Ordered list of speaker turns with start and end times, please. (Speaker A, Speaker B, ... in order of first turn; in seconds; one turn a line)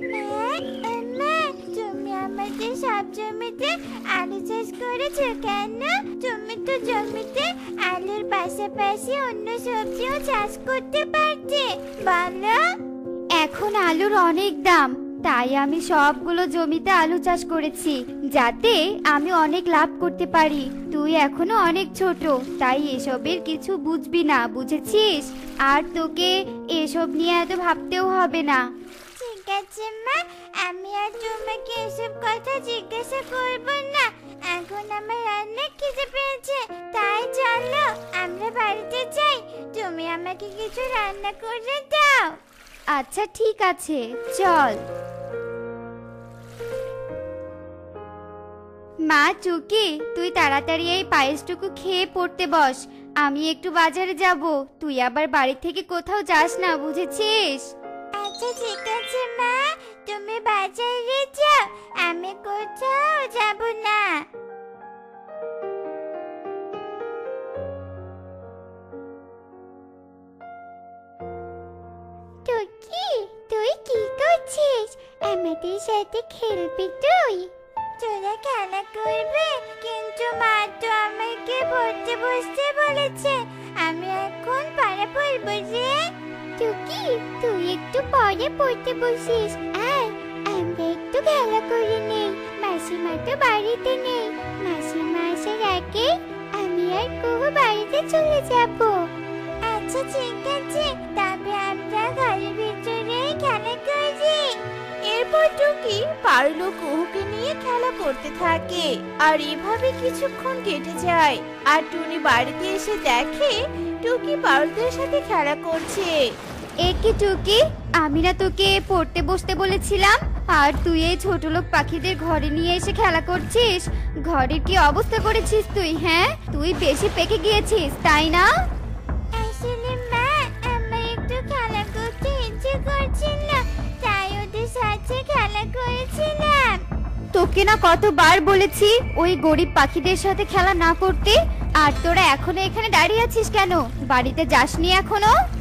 Speaker A: 0.1-12.6
Speaker B: 13.4-28.6
Speaker A: 29.2-42.4
Speaker B: 42.9-44.8
Speaker B: 49.1-57.7
Speaker A: 58.1-64.2
Speaker A: 72.5-99.0
Speaker A: 99.7-104.5
Speaker C: 105.1-116.2
Speaker B: 116.8-128.5
Speaker A: 129.3-136.8
Speaker B: 137.3-145.3